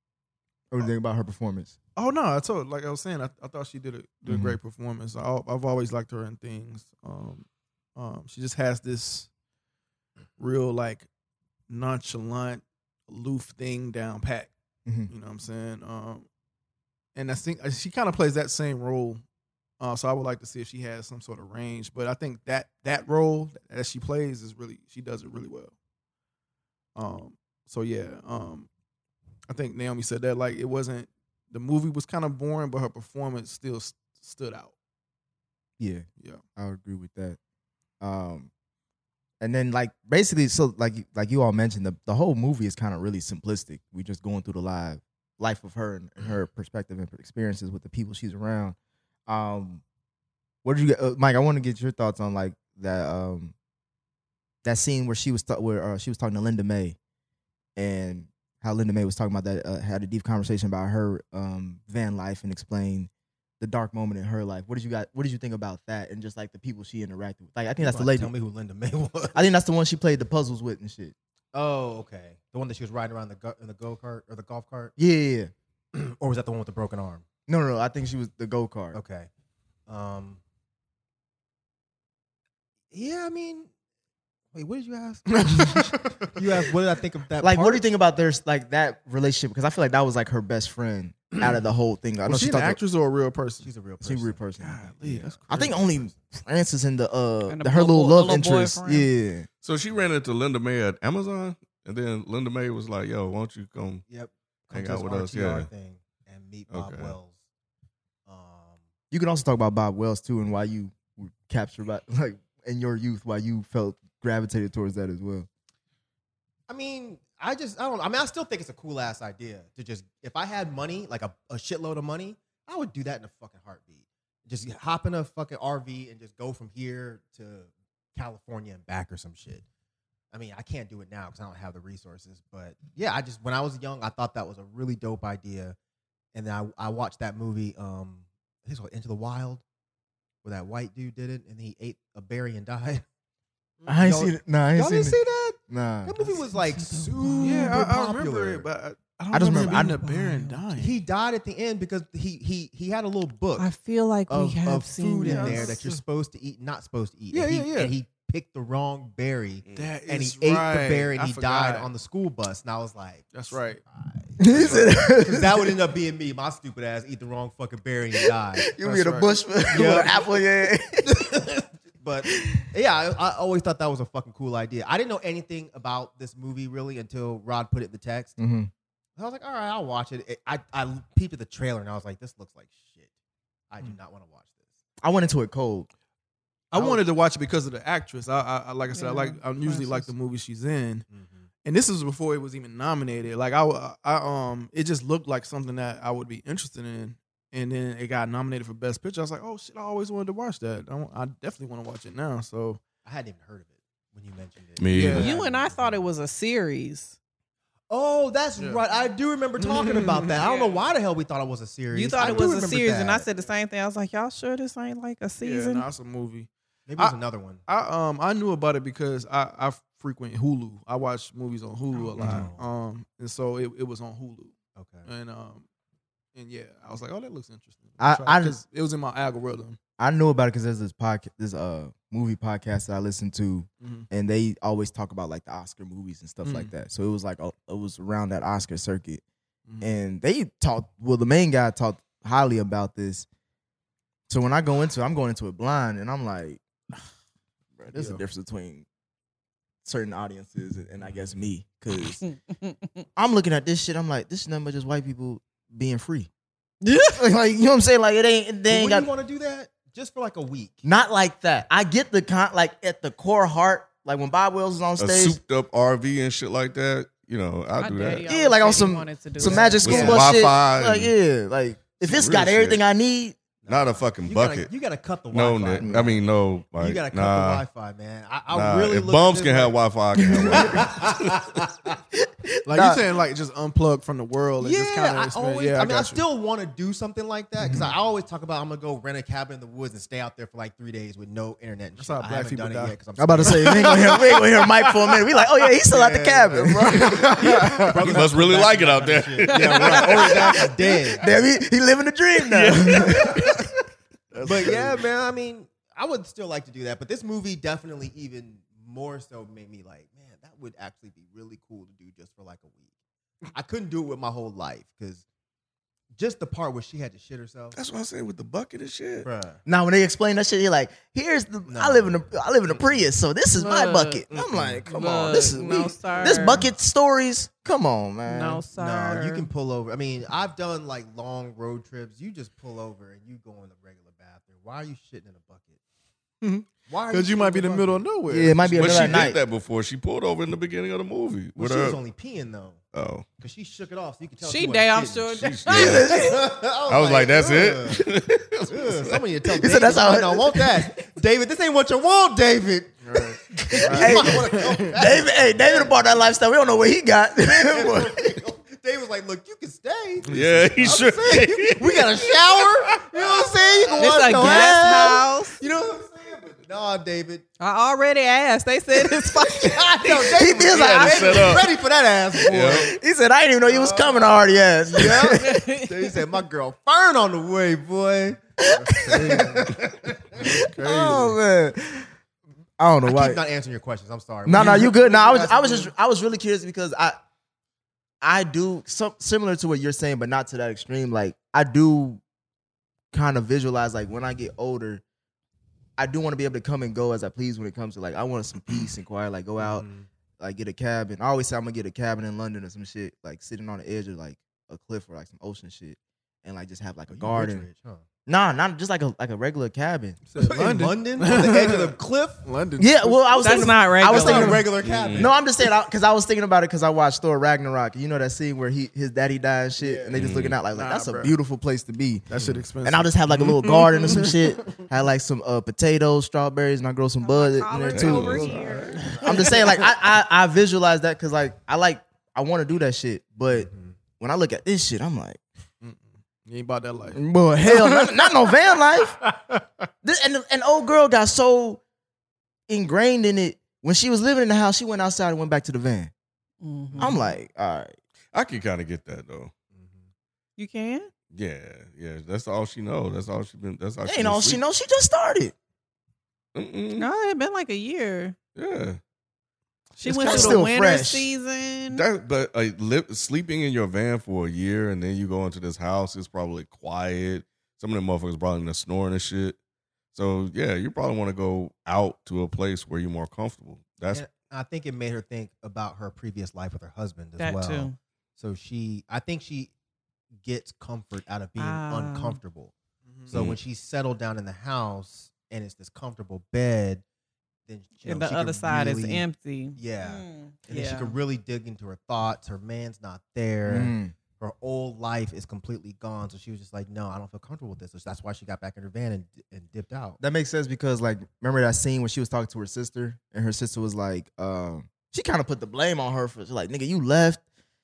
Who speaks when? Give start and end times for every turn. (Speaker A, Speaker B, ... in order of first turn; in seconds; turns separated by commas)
Speaker A: 0.7-1.7, Speaker B: 1.9-7.4, Speaker A: 4.2-4.6, Speaker B: 8.0-9.3, Speaker B: 10.4-11.1, Speaker B: 11.7-14.5, Speaker B: 15.1-16.2, Speaker B: 17.1-19.2, Speaker B: 19.8-25.7, Speaker B: 26.9-28.7, Speaker B: 29.5-34.7, Speaker A: 35.8-37.4, Speaker A: 38.0-38.5, Speaker A: 39.4-48.8, Speaker A: 49.3-49.8, Speaker A: 50.6-53.5, Speaker A: 54.6-57.0, Speaker A: 57.8-68.3, Speaker C: 67.8-69.4, Speaker A: 69.3-71.1, Speaker C: 71.5-74.9, Speaker A: 75.0-75.5, Speaker C: 75.9-77.2, Speaker A: 77.5-79.0, Speaker C: 78.9-79.3, Speaker C: 79.9-80.4, Speaker C: 82.9-83.7, Speaker C: 84.5-87.8, Speaker B: 85.4-86.3, Speaker A: 87.4-92.8, Speaker B: 92.2-93.7, Speaker C: 93.6-94.4, Speaker A: 94.0-99.5, Speaker B: 94.6-95.8, Speaker C: 95.0-96.2, Speaker D: 97.5-99.1, Speaker E: 99.6-104.0, Speaker C: 104.1-107.4, Speaker E: 104.7-105.7, Speaker E: 106.7-107.2, Speaker C: 108.3-108.8, Speaker A: 109.1-115.5, Speaker C: 116.7-129.6, Speaker C: 130.3-135.8, Speaker C: 136.3-139.6, Speaker C: 140.4-143.0, Speaker A: 143.8-146.2, Speaker C: 143.9-148.7, Speaker D: 146.4-147.8, Speaker B: 147.4-151.0, Speaker A: 149.3-150.0, Speaker D: 149.5-150.6, Speaker C: 150.8-153.7, Speaker D: 153.6-155.8, Speaker C: 154.3-168.7, Speaker B: 155.2-156.0, Speaker B: 157.3-157.9, Speaker B: 159.7-161.9, Speaker B: 163.3-163.8, Speaker A: 164.4-165.7, Speaker B: 164.5-164.9, Speaker A: 168.5-171.4, Speaker B: 168.8-169.4, Speaker C: 169.7-170.3, Speaker C: 171.1-178.3, Speaker A: 172.3-172.6, Speaker A: 178.4-178.7, Speaker C: 179.2-183.1, Speaker C: 183.7-184.6, Speaker A: 185.0-185.9, Speaker B: 186.7-191.1, Speaker A: 186.7-187.0, Speaker D: 188.9-190.1, Speaker C: 191.1-191.5, Speaker B: 191.6-202.8, Speaker C: 203.0-206.1, Speaker E: 204.8-205.3, Speaker B: 204.9-205.3, Speaker D: 205.1-207.2, Speaker C: 207.9-213.2, Speaker B: 209.6-210.4, Speaker D: 210.4-210.8, Speaker D: 211.9-215.9, Speaker B: 215.4-217.2, Speaker C: 216.9-217.6, Speaker B: 217.7-225.7, Speaker C: 222.2-222.7, Speaker C: 224.8-225.1, Speaker B: 226.3-229.8, Speaker A: 228.0-228.6, Speaker A: 230.0-239.2, Speaker B: 233.8-234.1, Speaker B: 236.4-236.7, Speaker B: 239.7-239.9, Speaker A: 239.8-243.3, Speaker A: 244.3-246.6, Speaker A: 247.8-248.8, Speaker B: 247.9-248.2, Speaker A: 249.8-252.2, Speaker A: 253.2-256.3, Speaker D: 256.8-257.2, Speaker A: 257.1-259.1, Speaker C: 258.7-260.8, Speaker A: 260.8-265.4, Speaker E: 265.0-268.3, Speaker D: 267.8-270.2, Speaker A: 268.3-273.4, Speaker C: 269.4-270.3, Speaker E: 269.6-271.1, Speaker E: 272.0-272.8, Speaker C: 273.6-279.8, Speaker E: 273.7-274.7, Speaker E: 275.3-277.6, Speaker A: 275.8-276.1, Speaker E: 278.5-281.1, Speaker C: 280.3-281.9, Speaker A: 280.4-280.8, Speaker A: 282.6-283.0, Speaker B: 282.6-286.2, Speaker C: 284.6-294.4, Speaker A: 287.6-287.9, Speaker B: 292.0-294.6, Speaker A: 293.2-297.3, Speaker C: 295.9-301.3, Speaker B: 296.5-297.8, Speaker E: 298.0-300.4, Speaker A: 299.5-300.4, Speaker D: 299.5-299.9, Speaker A: 301.2-303.6, Speaker E: 304.4-304.7, Speaker B: 304.4-304.9, Speaker C: 304.4-312.9, Speaker C: 313.5-315.2, Speaker C: 316.1-317.8, Speaker E: 317.7-319.3, Speaker C: 319.2-319.6, Speaker A: 319.6-328.6, Speaker C: 321.7-323.0, Speaker D: 323.6-324.2, Speaker C: 324.3-324.9, Speaker D: 324.9-326.6, Speaker C: 326.1-326.4, Speaker D: 328.2-329.5, Speaker C: 328.7-335.8, Speaker B: 336.4-339.2, Speaker C: 336.9-338.1, Speaker A: 338.3-339.4, Speaker E: 338.8-342.0, Speaker C: 341.6-342.8, Speaker E: 342.9-343.2, Speaker C: 343.4-348.0, Speaker D: 344.4-346.1, Speaker E: 345.4-346.2, Speaker A: 345.7-346.4, Speaker E: 346.9-349.2, Speaker C: 348.7-356.2, Speaker A: 349.5-350.9, Speaker B: 353.0-354.9, Speaker A: 353.9-358.3, Speaker C: 357.4-360.3, Speaker E: 360.2-363.3, Speaker B: 360.3-360.9, Speaker C: 360.8-367.4, Speaker D: 364.0-365.6, Speaker A: 364.1-365.2, Speaker D: 367.6-369.8, Speaker C: 369.5-372.9, Speaker A: 370.2-371.6, Speaker E: 370.7-371.7, Speaker E: 372.4-372.9, Speaker A: 372.5-375.6, Speaker C: 373.6-374.3, Speaker C: 374.9-380.4, Speaker D: 375.3-375.9, Speaker A: 378.7-379.7, Speaker B: 380.4-381.2, Speaker A: 380.5-382.1, Speaker C: 380.9-381.2, Speaker A: 382.8-383.4, Speaker C: 383.0-385.9, Speaker A: 384.4-387.2, Speaker A: 388.2-392.2, Speaker A: 393.1-395.0, Speaker A: 396.0-399.9, Speaker C: 399.6-400.1, Speaker A: 400.4-407.7, Speaker C: 407.1-408.0, Speaker A: 408.2-410.2, Speaker B: 410.3-413.6, Speaker C: 410.4-412.4, Speaker A: 412.8-422.2, Speaker D: 413.4-414.6, Speaker C: 413.6-415.3, Speaker E: 414.8-415.3, Speaker C: 419.8-420.2, Speaker E: 420.1-420.6, Speaker B: 420.7-421.3, Speaker B: 422.3-424.4, Speaker C: 422.3-422.6, Speaker A: 422.8-428.6, Speaker D: 427.2-429.1, Speaker E: 427.9-428.9, Speaker C: 428.8-429.8, Speaker B: 429.1-429.4, Speaker A: 429.2-435.4, Speaker C: 433.5-433.9, Speaker B: 435.8-438.3, Speaker A: 437.1-439.2, Speaker B: 439.2-439.6, Speaker A: 440.0-441.8, Speaker A: 442.7-446.1, Speaker D: 446.6-447.1, Speaker A: 447.0-447.9, Speaker E: 448.3-449.5, Speaker C: 449.7-450.1, Speaker D: 450.6-451.1, Speaker E: 451.3-454.6, Speaker A: 454.0-455.5, Speaker E: 456.5-457.1, Speaker D: 456.9-458.3, Speaker E: 458.6-459.0, Speaker D: 460.0-462.0, Speaker A: 460.1-461.3, Speaker E: 460.3-460.6, Speaker E: 461.9-469.6, Speaker E: 470.1-474.2, Speaker C: 474.1-479.7, Speaker D: 477.4-477.9, Speaker C: 480.4-482.7, Speaker D: 481.6-482.4, Speaker B: 483.0-483.3, Speaker C: 483.3-487.0, Speaker E: 483.3-483.6, Speaker C: 487.7-500.2, Speaker D: 488.0-491.2, Speaker A: 493.6-494.1, Speaker A: 500.2-507.4